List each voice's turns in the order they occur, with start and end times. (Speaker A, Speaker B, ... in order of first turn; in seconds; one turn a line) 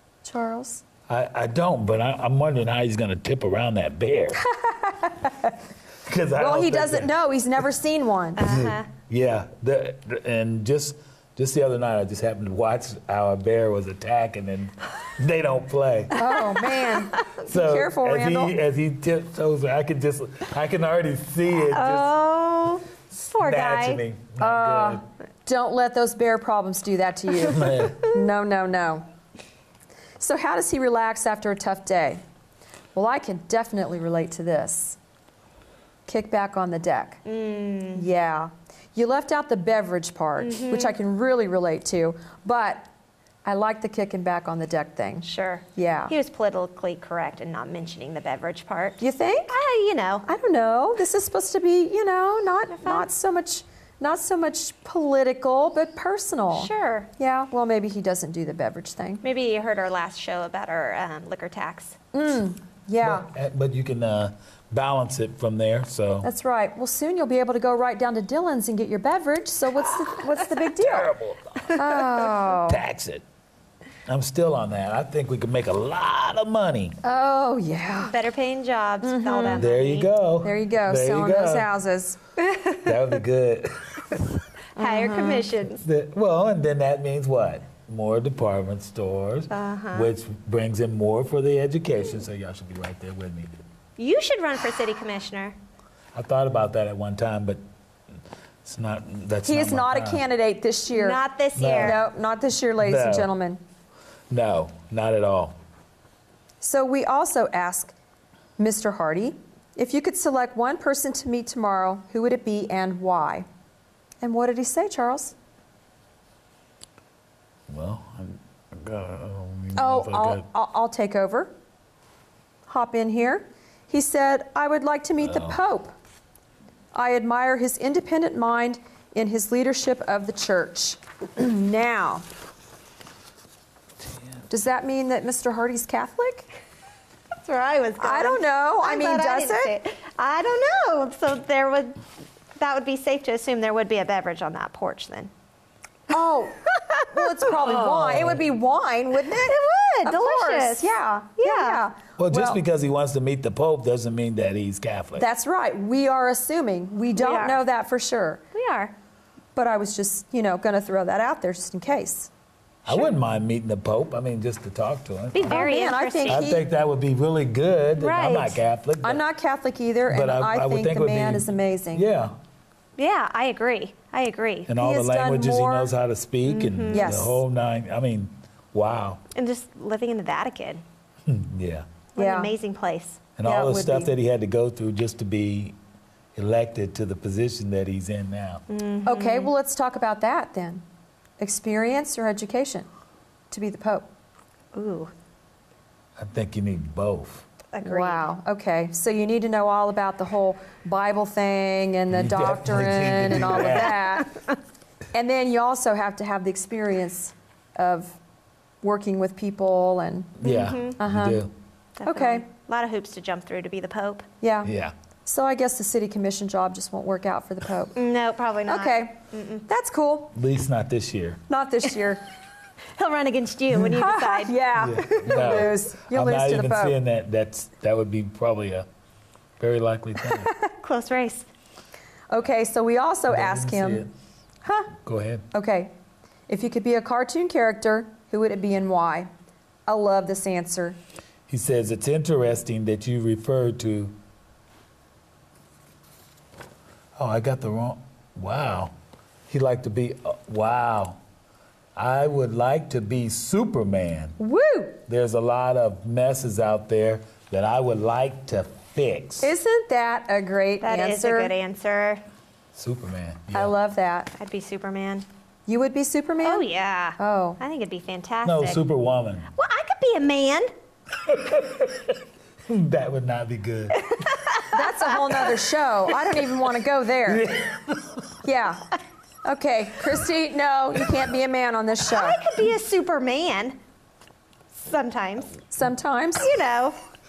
Speaker A: 0.2-0.8
Speaker B: 1.1-4.4
Speaker A: 4.4-5.5
Speaker B: 6.0-7.1
Speaker A: 6.4-8.5
Speaker C: 8.4-8.8
Speaker B: 8.4-16.1
Speaker A: 16.1-18.6
Speaker C: 16.2-17.2
Speaker B: 17.4-22.1
Speaker C: 21.5-24.0
Speaker B: 23.3-25.0
Speaker A: 24.4-29.1
Speaker B: 27.5-28.0
Speaker A: 30.2-32.2
Speaker A: 32.9-35.0
Speaker A: 36.1-37.2
Speaker C: 37.2-38.0
Speaker A: 37.9-42.9
Speaker C: 40.4-40.9
Speaker A: 43.4-46.1
Speaker C: 45.2-50.2
Speaker A: 49.0-49.5
Speaker A: 50.2-59.2
Speaker C: 52.8-53.1
Speaker C: 56.5-57.1
Speaker C: 59.2-62.0
Speaker A: 62.1-63.3
Speaker B: 63.0-66.3
Speaker A: 66.2-71.1
Speaker B: 70.6-73.2
Speaker A: 71.7-72.8
Speaker B: 74.0-77.0
Speaker A: 77.0-78.1
Speaker C: 78.1-80.1
Speaker A: 79.0-79.7
Speaker B: 79.5-81.7
Speaker A: 80.4-82.2
Speaker B: 82.8-84.4
Speaker C: 84.8-85.8
Speaker A: 84.8-85.5
Speaker B: 85.8-93.5
Speaker C: 89.5-90.1
Speaker C: 94.0-95.5
Speaker B: 96.1-97.6
Speaker B: 98.6-100.2
Speaker A: 99.4-101.2
Speaker C: 100.9-102.0
Speaker B: 101.5-102.0
Speaker A: 101.8-103.6
Speaker B: 102.8-103.3
Speaker B: 104.3-105.5
Speaker A: 106.6-107.9
Speaker A: 108.6-113.5
Speaker A: 114.2-115.3
Speaker B: 117.7-120.4
Speaker A: 119.8-121.5
Speaker A: 122.7-125.9
Speaker B: 125.2-125.6
Speaker A: 126.9-132.2
Speaker A: 134.5-136.5
Speaker C: 137.4-142.0
Speaker A: 138.0-139.7
Speaker C: 142.6-145.3
Speaker A: 146.1-152.6
Speaker C: 146.7-148.1
Speaker B: 147.7-148.4
Speaker C: 149.2-151.8
Speaker B: 152.2-155.2
Speaker A: 155.2-158.4
Speaker C: 157.2-157.6
Speaker C: 158.5-158.9
Speaker A: 159.5-162.3
Speaker B: 162.8-165.6
Speaker C: 165.3-166.5
Speaker A: 165.4-166.6
Speaker B: 166.2-169.2
Speaker C: 167.9-168.6
Speaker A: 169.0-172.0
Speaker B: 170.1-172.3
Speaker C: 173.0-174.7
Speaker B: 174.7-179.2
Speaker A: 174.8-175.9
Speaker C: 176.4-177.2
Speaker A: 176.9-177.4
Speaker C: 179.3-180.8
Speaker B: 181.3-181.9
Speaker C: 182.1-183.2
Speaker A: 182.2-182.5
Speaker B: 183.3-185.8
Speaker A: 183.4-184.1
Speaker B: 186.3-188.6
Speaker C: 188.7-189.5
Speaker A: 189.1-190.8
Speaker A: 191.4-192.9
Speaker A: 193.5-194.1
Speaker C: 194.7-195.1
Speaker B: 196.2-197.4
Speaker C: 197.7-198.3
Speaker A: 197.8-204.3
Speaker B: 202.1-204.1
Speaker A: 205.1-208.2
Speaker A: 208.8-210.3
Speaker B: 210.4-211.5
Speaker C: 210.4-211.0
Speaker A: 211.0-211.5
Speaker C: 212.0-214.2
Speaker A: 212.0-212.4
Speaker A: 214.4-214.7
Speaker B: 214.6-214.9
Speaker A: 215.2-218.0
Speaker C: 217.9-219.6
Speaker A: 218.7-220.3
Speaker B: 220.3-221.4
Speaker A: 221.5-222.2
Speaker C: 222.9-224.6
Speaker A: 223.9-226.9
Speaker B: 224.8-228.9
Speaker B: 229.6-230.5
Speaker A: 230.3-230.6
Speaker C: 230.8-231.5
Speaker A: 232.3-234.1
Speaker B: 233.3-234.1
Speaker A: 234.6-234.9
Speaker B: 235.0-235.4
Speaker A: 235.5-235.9
Speaker A: 236.5-239.3
Speaker A: 239.9-241.0
Speaker B: 241.5-244.2
Speaker B: 247.2-248.9
Speaker B: 249.5-251.2
Speaker B: 251.9-254.4
Speaker A: 254.4-255.0
Speaker B: 255.1-259.5
Speaker A: 259.4-261.5
Speaker C: 260.8-262.2
Speaker B: 262.7-263.7
Speaker A: 263.5-264.3
Speaker C: 264.3-265.2
Speaker A: 265.7-266.6
Speaker C: 266.4-268.8
Speaker A: 267.2-267.6
Speaker B: 268.4-269.5
Speaker C: 269.6-270.7
Speaker B: 271.2-274.2
Speaker C: 274.1-274.8
Speaker A: 274.7-277.5
Speaker B: 277.3-278.2
Speaker A: 278.4-278.9
Speaker A: 279.4-282.4
Speaker C: 282.1-283.8
Speaker C: 284.7-285.6
Speaker A: 285.7-286.5
Speaker C: 286.4-286.9